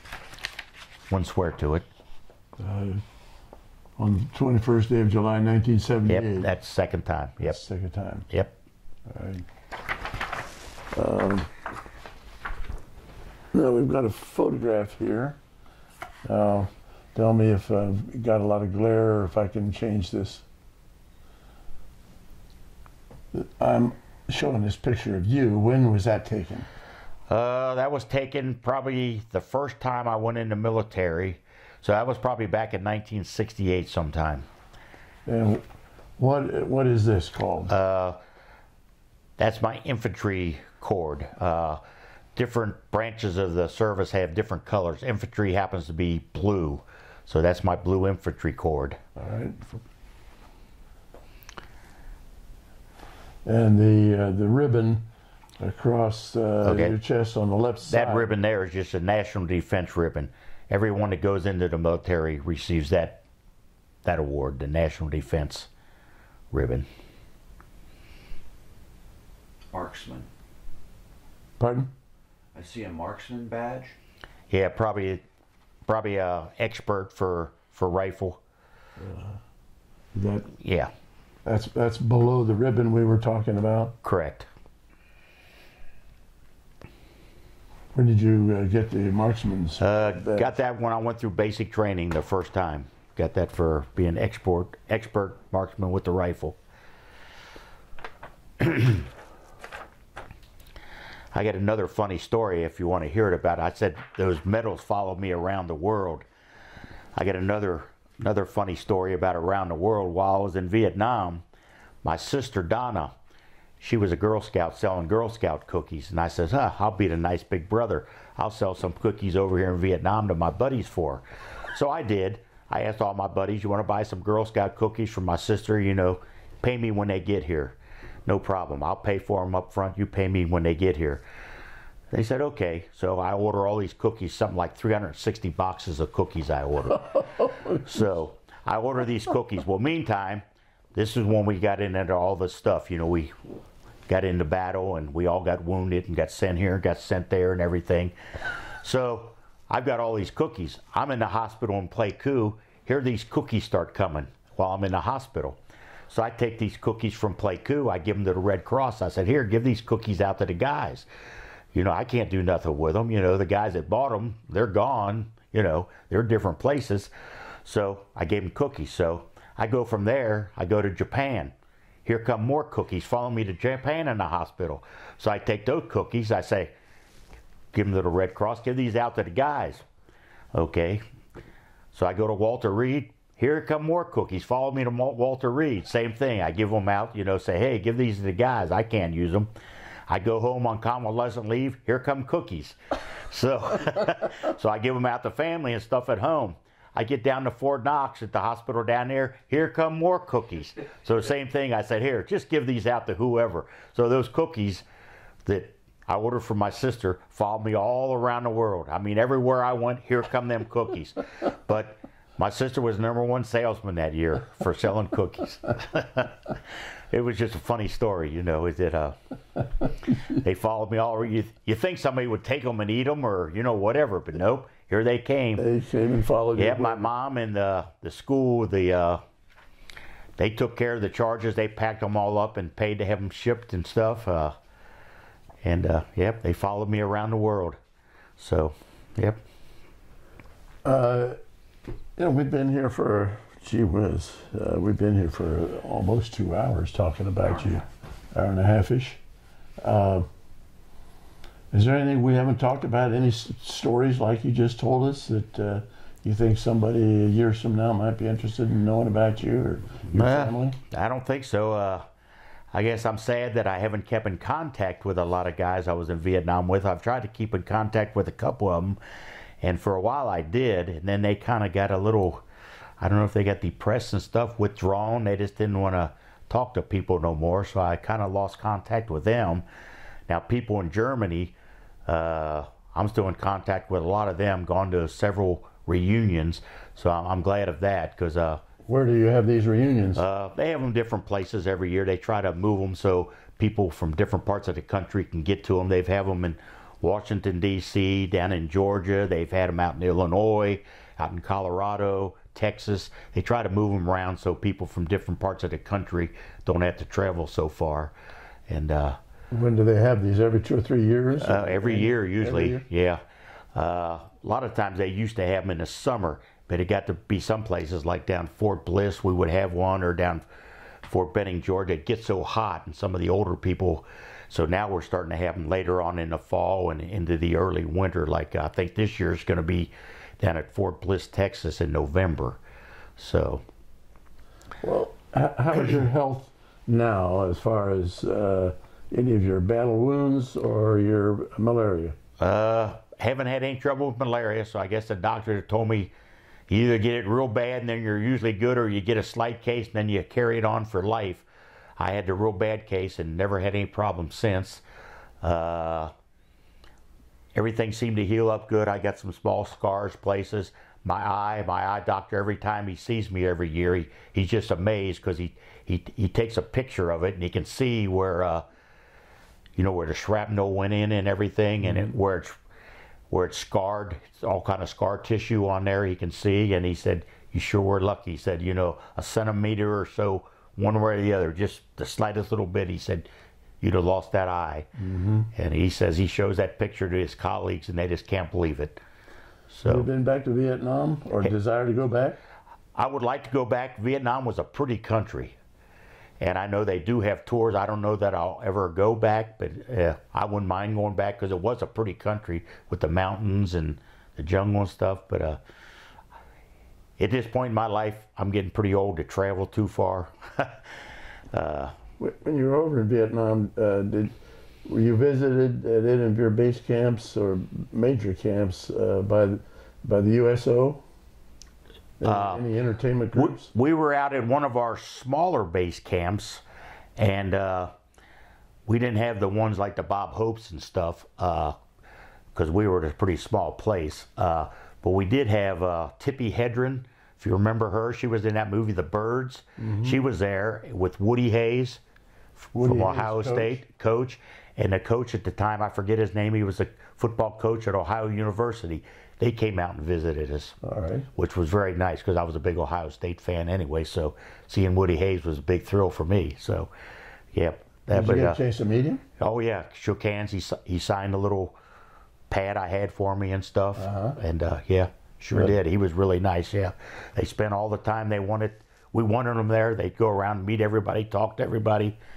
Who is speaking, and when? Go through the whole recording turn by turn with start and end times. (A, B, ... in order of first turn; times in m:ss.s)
0:01.1-0:01.9 A
0:02.6-0:03.0 B
0:04.0-0:06.5 B
0:06.1-0:07.6 A
0:07.4-0:08.3 B
0:09.1-0:09.5 B
0:10.9-0:11.5 B
0:13.5-0:15.4 B
0:16.2-0:20.4 B
0:23.3-0:26.7 B
0:27.3-0:34.5 A
0:35.3-0:35.6 B
0:36.2-0:37.7 B
0:37.7-0:38.2 A
0:39.4-0:41.8 A
0:42.4-0:49.0 A
0:49.2-0:49.6 B
0:53.4-0:55.0 B
0:55.6-0:58.3 B
0:56.6-0:57.0 A
0:57.9-1:03.2 A
1:04.0-1:05.7 A
1:06.5-1:06.9 A
1:09.7-1:10.3 C
1:11.6-1:11.9 B
1:12.5-1:14.0 C
1:14.5-1:15.2 A
1:15.8-1:18.4 A
1:19.0-1:19.4 B
1:20.2-1:20.5 B
1:20.6-1:20.9 A
1:21.4-1:24.0 B
1:24.0-1:24.5 A
1:28.0-1:30.5 B
1:29.8-1:36.6 A
1:38.6-1:39.1 A
1:41.3-1:46.3 A
1:47.2-1:51.4 A
1:52.0-1:53.1 A
1:53.8-2:11.2 A
2:12.1-2:17.2 A
2:17.0-2:18.0 B
2:17.8-2:20.4 A
2:20.9-2:23.3 A
2:24.1-2:28.2 A
2:28.8-2:35.6 A
2:36.1-2:41.1 A
2:41.7-2:47.1 A
2:47.6-2:56.7 A
2:57.7-2:59.8 A
3:00.5-3:01.0 A
3:01.9-3:09.5 A
3:10.1-3:24.8 A
3:25.4-3:39.2 A
3:40.3-3:45.6 A
3:45.6-3:47.1 B
3:46.6-3:49.2 A
3:50.4-3:54.6 A
3:55.6-3:57.8 A
3:58.4-3:59.4 A
4:00.8-4:01.4 B
4:02.2-4:09.2 B
4:09.8-4:10.3 B
4:11.7-4:20.8 B
4:20.1-4:22.1 A
4:22.7-4:29.0 A
4:29.6-4:32.4 A
4:33.0-4:39.7 A
4:40.3-4:41.6 A
4:42.1-4:48.6 A
4:48.9-4:50.2 B
4:50.2-5:08.2 A
5:08.7-5:09.2 A
5:09.5-5:12.8 B
5:11.4-5:13.2 A
5:13.8-5:20.4 A
5:21.0-5:32.6 A
5:33.2-5:33.6 A
5:34.8-5:42.2 B
5:42.4-5:46.1 A
5:46.7-5:51.5 A
5:52.0-5:54.8 A
5:55.4-5:56.1 A
5:57.6-6:08.7 A
6:09.8-6:12.6 A
6:13.3-6:23.3 A
6:23.8-6:24.9 A
6:25.0-6:25.5 B
6:25.5-6:29.0 A
6:29.7-6:30.1 A
6:29.8-6:32.4 B
6:33.0-6:35.6 A
6:36.4-6:45.6 A
6:47.2-6:52.0 A
6:52.2-7:01.0 B
7:02.2-7:03.7 B
7:02.2-7:02.7 A
7:03.3-7:06.6 A
7:07.2-7:07.9 A
7:08.9-7:11.8 A
7:12.6-7:22.0 A
7:19.8-7:20.2 B
7:22.6-7:30.8 A
7:22.8-7:23.8 B
7:30.8-7:31.3 B
7:31.4-7:36.9 A
7:37.5-7:38.6 A
7:38.1-7:39.2 B
7:39.4-7:41.8 A
7:42.5-7:52.2 A
7:44.0-7:44.4 B